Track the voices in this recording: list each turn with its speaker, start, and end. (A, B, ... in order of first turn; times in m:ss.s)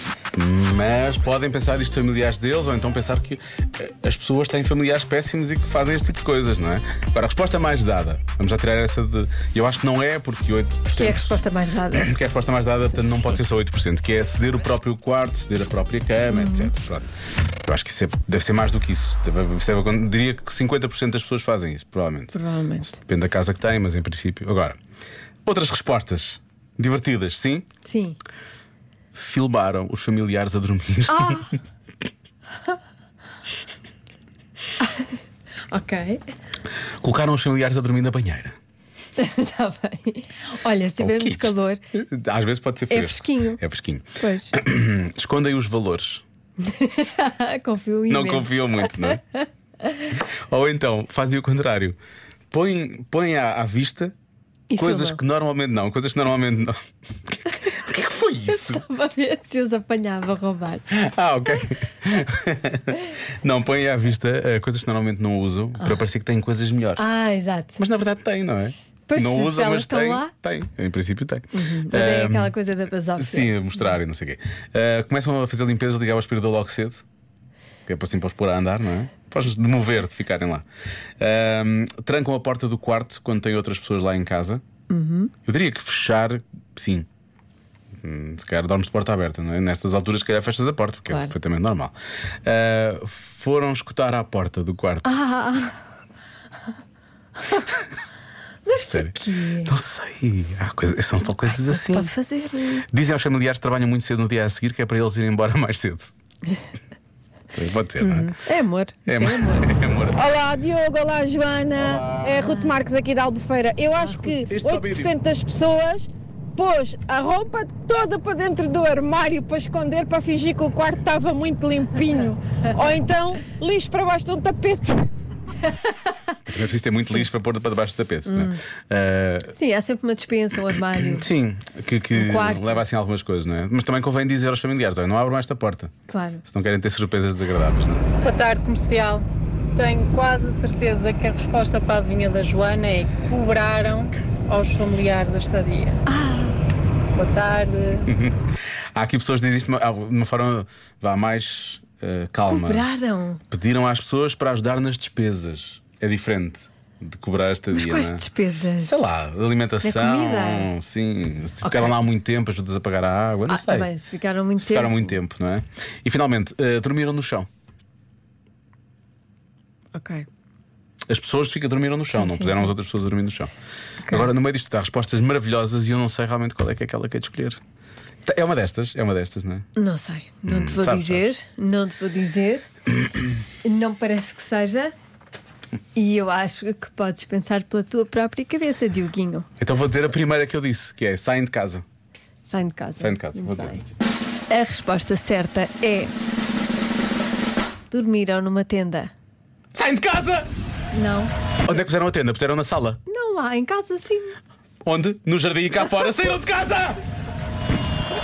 0:00.3-0:17.1 A
0:10.9-0:12.1 B
0:13.0-0:13.4 B
0:16.3-0:16.7 B
0:17.6-0:22.3 A
0:22.3-0:23.0 B
0:22.9-0:24.8 A
0:25.4-0:27.7 A
0:27.8-0:28.2 B
0:29.1-0:31.5 A
0:31.1-0:31.5 B
0:34.8-0:35.2 B
0:35.7-0:36.2 B
0:37.0-0:38.6 A
0:39.2-0:41.8 B
0:41.0-0:46.2 A
0:42.9-0:43.6 B
0:44.2-0:44.5 B
0:46.6-0:50.1 B
0:48.1-0:49.2 A
0:50.2-0:52.0 A
0:52.5-0:54.1 A
0:54.7-0:55.2 B
0:54.8-0:56.7 A
0:57.3-0:58.8 A
0:58.5-1:00.8 B
1:00.9-1:07.0 A
1:07.0-1:07.8 B
1:07.8-1:12.5 A
1:09.1-1:10.3 B
1:11.5-1:13.9 B
1:13.2-1:17.0 A
1:17.9-1:20.6 A
1:21.2-1:24.6 A
1:24.9-1:25.3 B
1:25.4-1:27.1 A
1:28.0-1:35.2 A
1:35.0-1:35.8 B
1:38.6-1:39.7 B
1:38.8-1:42.1 A
1:41.5-1:42.8 B
1:42.9-1:46.1 A
1:47.5-1:48.3 A
1:48.0-1:49.8 B
1:49.1-1:50.2 A
1:50.1-2:05.1 C
1:51.8-1:52.4 A
1:52.3-1:52.8 B
1:54.0-1:54.5 B
1:54.5-1:55.1 A
2:06.4-2:09.5 A
2:08.2-2:08.6 B
2:09.5-2:11.3 B
2:10.9-2:15.9 A
2:12.1-2:12.8 B
2:16.1-2:16.4 B
2:16.4-2:18.1 A
2:18.2-2:26.0 D
2:26.1-2:26.6 B
2:27.1-2:28.1 D
2:28.0-2:28.4 A
2:28.9-2:32.9 A
2:32.5-2:33.4 B
2:33.5-2:38.2 A
2:37.7-2:39.0 B
2:38.8-2:43.9 A
2:39.8-2:40.7 B
2:41.6-2:42.0 B
2:43.5-2:45.1 B
2:44.6-2:47.5 A
2:49.9-2:50.3 B
2:51.1-2:53.5 A
2:52.1-2:52.8 B
2:54.0-2:54.3 B
2:54.1-2:57.6 A
2:58.2-2:59.6 A
2:59.8-3:02.7 B
3:00.4-3:01.3 A
3:03.6-3:04.9 B
3:05.9-3:09.5 B
3:09.6-3:11.8 A
3:12.4-3:13.8 B
3:13.0-3:13.8 A
3:14.5-3:16.1 B
3:17.9-3:19.1 B
3:19.7-3:20.5 A
3:20.9-3:21.3 B
3:21.6-3:23.0 A
3:23.1-3:24.4 B
3:24.8-3:27.0 A